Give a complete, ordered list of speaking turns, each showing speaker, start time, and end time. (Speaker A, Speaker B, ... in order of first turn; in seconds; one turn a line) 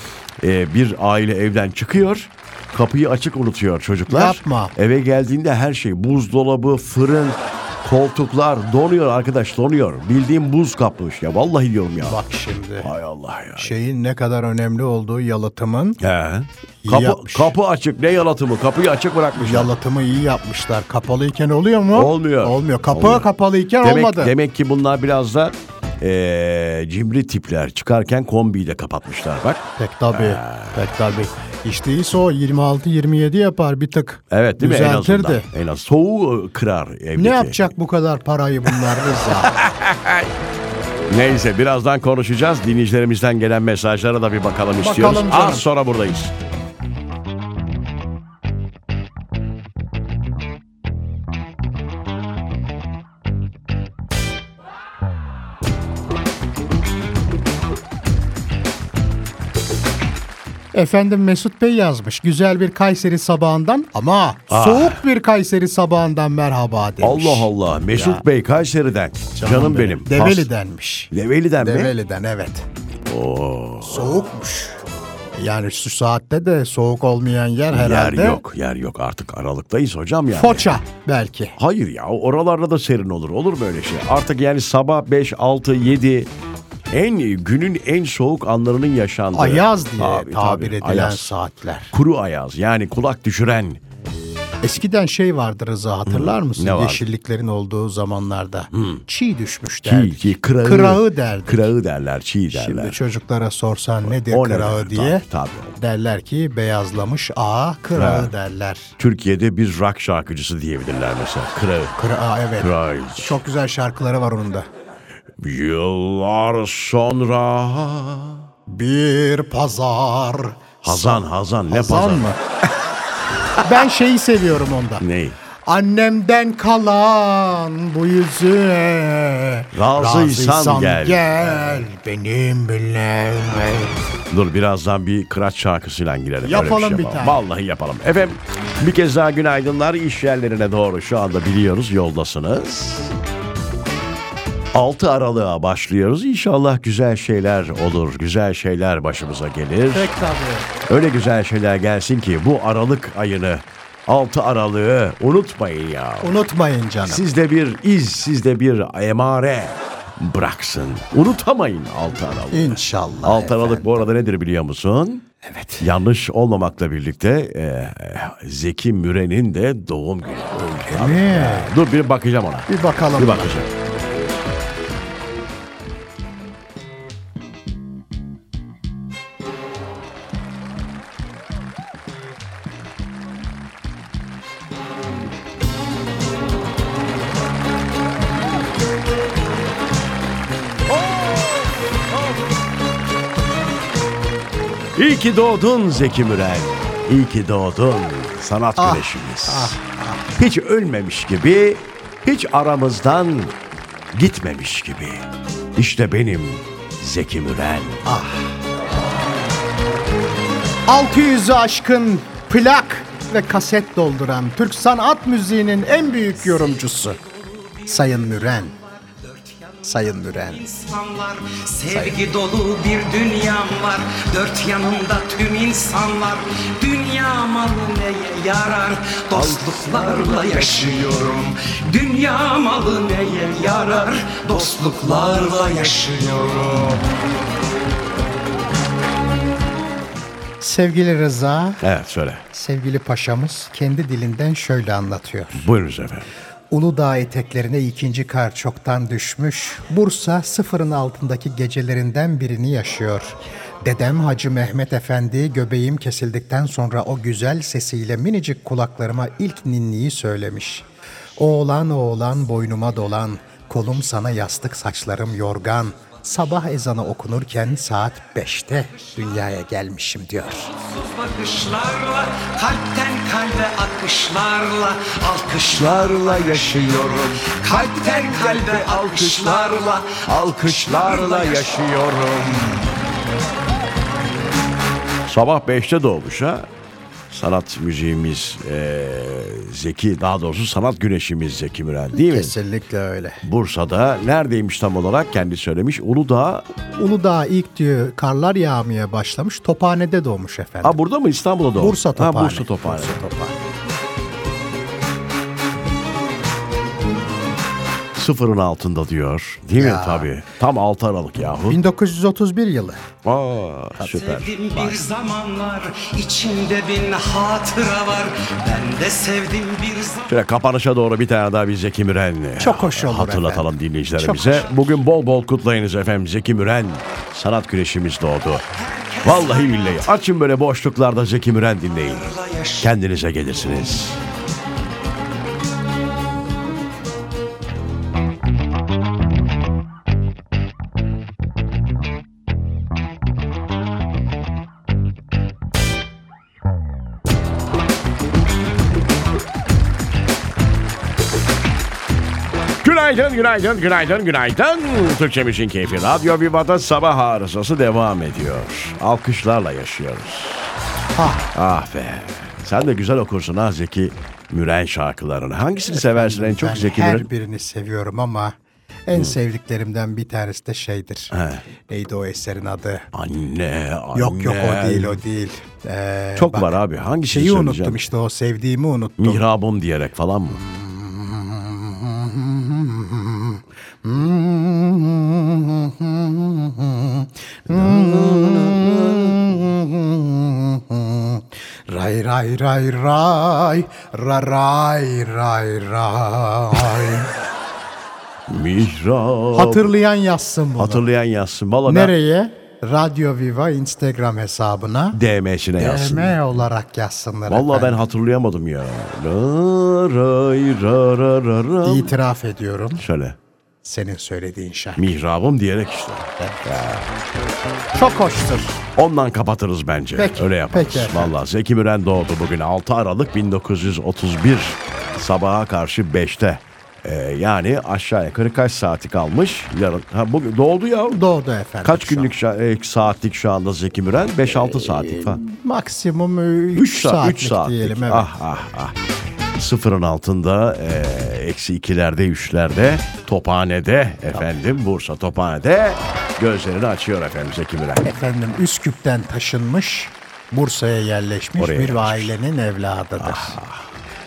Speaker A: 0.4-12.2
Speaker B: 4.1-4.7
Speaker B: 12.0-12.9
Speaker A: 12.8-13.7
Speaker B: 13.6-16.0
Speaker A: 16.0-19.7
Speaker B: 16.8-17.6
Speaker B: 19.3-24.4
Speaker A: 21.9-30.8
Speaker B: 29.8-35.5
Speaker A: 34.3-37.6
Speaker B: 37.2-39.6
Speaker A: 39.3-40.3
Speaker A: 41.1-46.3
Speaker B: 44.8-45.7
Speaker B: 60.7-68.2
Speaker A: 64.5-65.0
Speaker A: 67.0-70.5
Speaker B: 69.3-72.7
Speaker A: 71.1-72.0
Speaker A: 73.0-74.2
Speaker B: 73.8-74.8
Speaker B: 75.4-78.4
Speaker A: 77.7-80.8
Speaker B: 80.3-81.6
Speaker A: 81.6-86.3
Speaker A: 86.9-91.3
Speaker B: 89.3-91.9
Speaker A: 91.9-93.8
Speaker B: 94.6-101.8
Speaker A: 96.1-97.0
Speaker A: 98.8-99.0
Speaker A: 99.8-103.0
Speaker B: 102.5-108.9
Speaker A: 104.0-105.8
Speaker A: 108.0-108.3
Speaker A: 109.0-112.0
Speaker B: 112.0-114.7
Speaker A: 112.6-113.4
Speaker A: 115.4-118.5
Speaker B: 118.7-122.4
Speaker A: 120.8-122.3
Speaker B: 123.6-125.0
Speaker A: 125.0-125.4
Speaker B: 125.6-133.9
Speaker A: 129.7-131.9
Speaker A: 134.3-143.1
Speaker B: 136.4-137.4
Speaker A: 144.7-150.1
Speaker B: 149.9-150.7
Speaker A: 150.9-156.4
Speaker B: 156.2-157.2
Speaker A: 157.0-165.2
Speaker B: 162.5-164.1
Speaker B: 165.4-165.9
Speaker A: 165.8-173.7
Speaker B: 170.7-171.8
Speaker B: 172.7-173.6
Speaker A: 191.0-191.7
Speaker A: 194.9-199.8
Speaker B: 198.8-200.2
Speaker A: 200.3-203.6
Speaker A: 204.1-205.2
Speaker A: 205.8-208.2
Speaker B: 208.1-208.5
Speaker B: 210.9-217.2
Speaker B: 217.8-218.8
Speaker C: 219.1-219.7
Speaker B: 219.8-220.7
Speaker C: 220.5-237.1
Speaker B: 221.9-222.3
Speaker A: 229.3-231.2
Speaker B: 240.6-241.8
Speaker A: 241.8-242.4
Speaker B: 242.5-245.7
Speaker A: 245.6-246.3
Speaker B: 246.7-260.9
Speaker B: 261.4-270.7
Speaker C: 270.8-281.8
Speaker A: 275.6-282.9
Speaker A: 285.3-286.7
Speaker A: 287.3-292.5
Speaker B: 292.1-293.4
Speaker A: 293.4-296.7
Speaker B: 296.9-301.0
Speaker A: 300.8-303.2
Speaker B: 301.8-303.6
Speaker A: 308.1-311.8
Speaker B: 309.8-310.3
Speaker B: 311.7-313.0
Speaker A: 313.2-315.0
Speaker C: 314.0-320.3
Speaker A: 320.3-334.2
Speaker B: 322.6-324.9
Speaker C: 328.8-330.1
Speaker C: 332.2-332.8
Speaker A: 352.8-360.7
Speaker B: 361.1-361.5
Speaker A: 361.5-367.3
Speaker B: 365.8-371.3
Speaker A: 371.3-371.6
Speaker B: 371.9-373.1
Speaker A: 373.1-375.2
Speaker B: 374.1-379.5
Speaker A: 376.4-378.1
Speaker A: 379.2-380.6
Speaker B: 380.5-397.3
Speaker A: 387.7-389.6
Speaker A: 398.5-399.9
Speaker B: 399.5-401.0
Speaker A: 400.8-402.1
Speaker B: 401.9-405.2
Speaker A: 405.1-406.6
Speaker B: 405.8-408.0
Speaker A: 407.5-412.2
Speaker B: 411.8-413.1
Speaker A: 412.9-413.4
Speaker B: 413.8-415.1
Speaker A: 415.0-417.1
Speaker B: 416.4-416.7
Speaker B: 417.9-418.8
Speaker A: 419.0-431.2
Speaker B: 420.1-421.3
Speaker B: 431.1-432.3
Speaker A: 431.8-435.4
Speaker B: 434.6-438.3
Speaker A: 436.7-438.9
Speaker A: 439.6-448.1
Speaker B: 448.0-453.6
Speaker A: 451.6-452.4
Speaker A: 453.2-453.9